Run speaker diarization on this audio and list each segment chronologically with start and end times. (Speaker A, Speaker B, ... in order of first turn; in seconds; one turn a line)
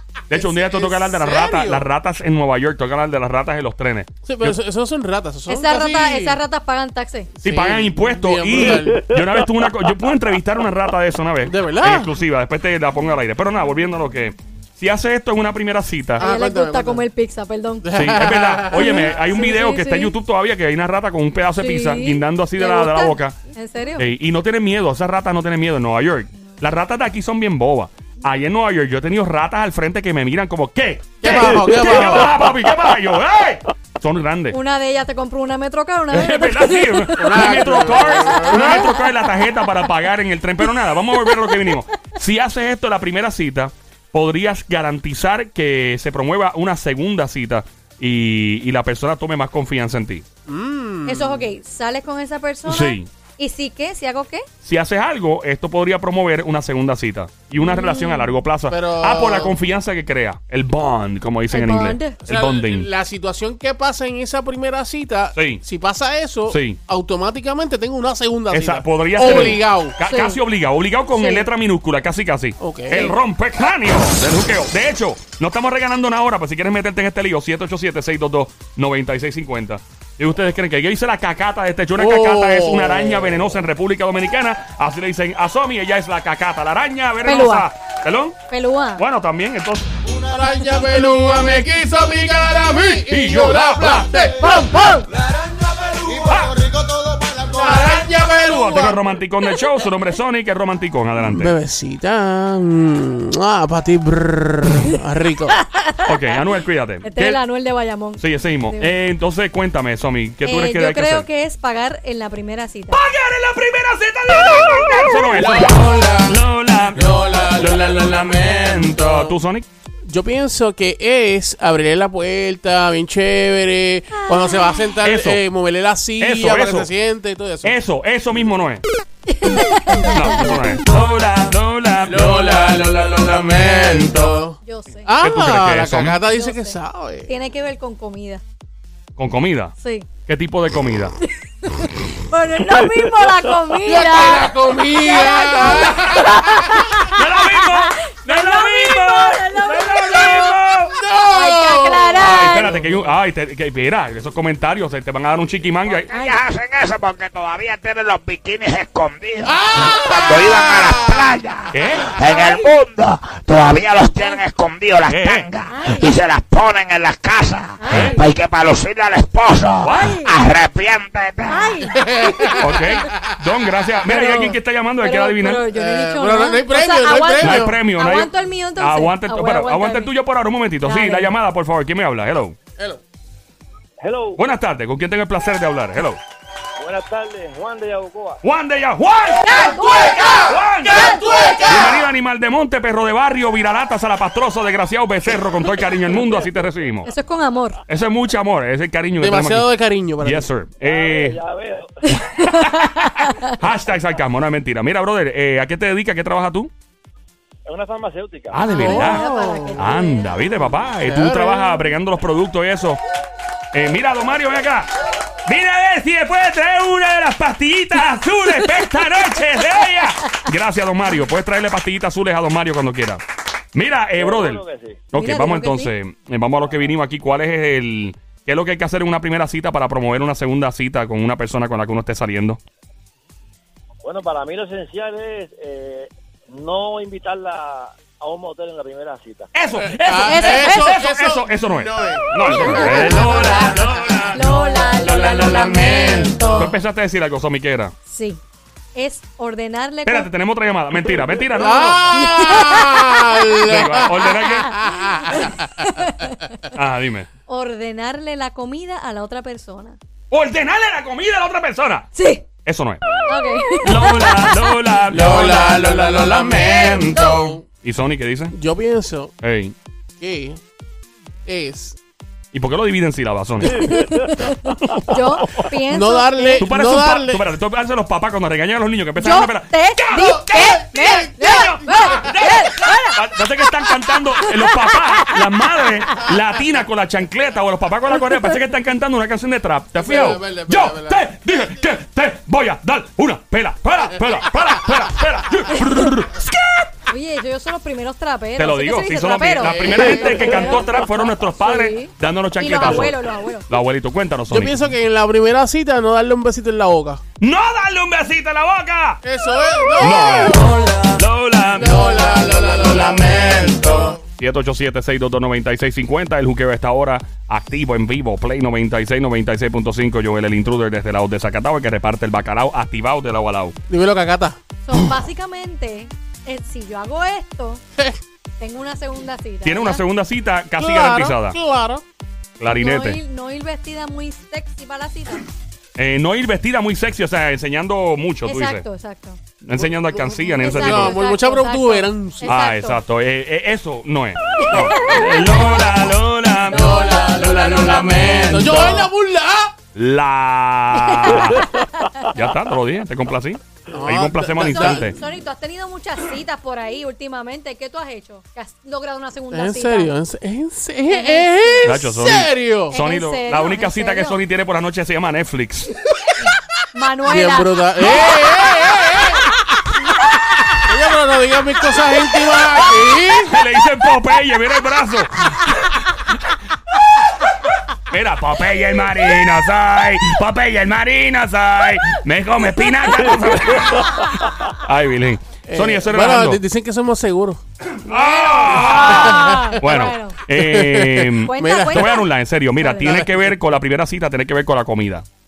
Speaker A: 0.3-4.6
Speaker B: 0.3-1.9
Speaker B: 4.3-6.4
Speaker C: 5.5-7.3
Speaker B: 7.4-9.1
Speaker A: 7.4-16.3
Speaker D: 8.9-9.8
Speaker B: 11.4-12.2
Speaker B: 16.2-17.1
Speaker C: 16.2-17.9
Speaker B: 17.8-19.1
Speaker A: 17.9-23.4
Speaker C: 18.7-20.1
Speaker C: 21.6-24.1
Speaker A: 24.0-34.6
Speaker B: 31.2-32.5
Speaker C: 34.5-39.7
Speaker A: 36.1-50.2
Speaker B: 37.2-38.9
Speaker C: 40.6-41.8
Speaker B: 50.5-51.5
Speaker C: 51.1-54.5
Speaker A: 52.6-53.1
Speaker A: 54.6-62.9
Speaker C: 57.6-58.4
Speaker B: 58.7-59.6
Speaker C: 61.5-62.2
Speaker B: 62.2-70.0
Speaker A: 65.3-65.6
Speaker A: 66.5-66.8
Speaker A: 68.5-88.4
Speaker C: 69.2-70.4
Speaker C: 71.1-71.5
Speaker B: 72.6-73.1
Speaker B: 82.0-83.5
Speaker C: 87.2-87.7
Speaker C: 88.5-89.0
Speaker A: 89.0-89.9
Speaker B: 90.0-95.0
Speaker A: 93.0-94.5
Speaker C: 94.4-95.1
Speaker E: 95.6-97.9
Speaker A: 96.2-96.6
Speaker B: 97.5-99.0
Speaker A: 98.3-101.5
Speaker B: 101.2-105.6
Speaker C: 105.5-106.4
Speaker A: 106.0-107.4
Speaker C: 107.0-108.9
Speaker A: 108.2-111.3
Speaker C: 110.4-113.0
Speaker A: 112.9-119.7
Speaker C: 114.3-115.5
Speaker B: 115.3-116.4
Speaker B: 116.9-119.3
Speaker B: 120.1-127.8
Speaker C: 124.2-124.9
Speaker A: 125.0-125.4
Speaker A: 126.2-126.9
Speaker A: 127.6-128.8
Speaker C: 129.3-130.6
Speaker A: 130.0-132.7
Speaker B: 132.1-137.3
Speaker C: 134.6-135.1
Speaker A: 135.2-136.2
Speaker C: 136.3-138.4
Speaker A: 139.2-139.7
Speaker C: 139.8-140.1
Speaker A: 140.3-141.2
Speaker C: 141.2-150.6
Speaker B: 143.8-146.9
Speaker A: 147.1-150.9
Speaker B: 151.0-153.0
Speaker C: 151.3-152.8
Speaker A: 152.2-156.1
Speaker E: 155.9-171.8
Speaker C: 156.1-156.4
Speaker B: 159.4-161.4
Speaker A: 161.7-162.2
Speaker A: 165.1-165.5
Speaker C: 165.7-166.2
Speaker C: 167.8-168.2
Speaker A: 167.9-168.2
Speaker A: 169.8-170.2
Speaker C: 169.8-170.3
Speaker C: 171.5-173.1
Speaker B: 172.0-173.2
Speaker A: 172.6-175.7
Speaker C: 174.1-180.1
Speaker B: 175.7-177.8
Speaker A: 177.4-182.6
Speaker C: 180.8-181.3
Speaker D: 184.0-184.4
Speaker A: 184.4-186.2
Speaker D: 186.8-188.4
Speaker A: 188.4-189.7
Speaker C: 189.4-191.3
Speaker B: 189.5-192.1
Speaker A: 190.4-197.1
Speaker C: 197.0-197.8
Speaker A: 197.9-201.4
Speaker B: 199.2-200.5
Speaker D: 200.9-201.9
Speaker A: 202.3-206.7
Speaker C: 202.4-203.5
Speaker D: 207.7-208.6
Speaker A: 208.5-213.0
Speaker C: 208.7-210.5
Speaker B: 208.7-209.9
Speaker B: 211.0-211.9
Speaker A: 213.7-214.9
Speaker A: 215.5-223.2
Speaker A: 223.7-232.6
Speaker D: 224.2-225.1
Speaker C: 225.1-225.9
Speaker D: 234.0-239.5
Speaker A: 239.5-244.5
Speaker B: 239.8-244.4
Speaker C: 240.2-241.0
Speaker C: 242.4-243.8
Speaker C: 244.3-246.7
Speaker A: 245.0-247.9
Speaker B: 245.0-246.8
Speaker C: 248.1-248.4
Speaker C: 248.9-250.3
Speaker A: 250.1-252.3
Speaker B: 251.6-255.7
Speaker C: 252.1-253.7
Speaker A: 253.6-254.8
Speaker C: 254.8-256.7
Speaker A: 256.7-257.3
Speaker C: 257.5-260.0
Speaker A: 260.3-262.1
Speaker C: 262.1-262.5
Speaker A: 262.6-263.2
Speaker C: 263.3-264.7
Speaker A: 263.8-268.6
Speaker B: 265.1-267.6
Speaker B: 268.5-269.3
Speaker A: 269.4-269.8
Speaker B: 270.2-270.6
Speaker B: 271.5-272.0
Speaker A: 272.5-274.0
Speaker C: 273.7-276.7
Speaker B: 275.9-277.5
Speaker A: 276.6-296.9
Speaker C: 279.2-285.6
Speaker B: 280.1-282.3
Speaker B: 290.0-291.3
Speaker C: 297.1-303.7
Speaker A: 298.6-303.1
Speaker B: 299.6-300.9
Speaker A: 303.7-304.8
Speaker B: 304.5-307.2
Speaker A: 307.4-309.2
Speaker B: 309.2-310.8
Speaker A: 310.0-323.8
Speaker B: 311.7-314.2
Speaker B: 323.9-324.6
Speaker C: 324.9-327.8
Speaker C: 328.6-330.0
Speaker A: 329.6-331.6
Speaker B: 330.8-332.0
Speaker A: 332.6-333.2
Speaker C: 332.6-335.5
Speaker A: 336.0-338.8
Speaker C: 338.4-339.4
Speaker A: 339.6-341.2
Speaker B: 339.8-342.6
Speaker C: 340.6-343.0
Speaker A: 342.4-349.0
Speaker C: 344.6-349.1
Speaker B: 348.1-349.7
Speaker A: 349.9-351.7
Speaker C: 351.1-352.5
Speaker A: 352.3-355.2
Speaker B: 353.9-355.1
Speaker C: 354.6-360.1
Speaker B: 359.5-363.0
Speaker C: 361.1-362.0
Speaker A: 361.9-366.0
Speaker C: 362.9-364.4
Speaker C: 366.9-369.4
Speaker B: 367.3-369.5
Speaker B: 370.8-373.6
Speaker A: 373.4-376.4
Speaker A: 378.1-386.6
Speaker C: 384.1-384.6
Speaker B: 385.7-387.6
Speaker A: 388.0-395.2
Speaker C: 388.1-390.4
Speaker B: 389.0-389.8
Speaker B: 390.5-392.2
Speaker C: 391.4-392.3
Speaker C: 392.8-393.3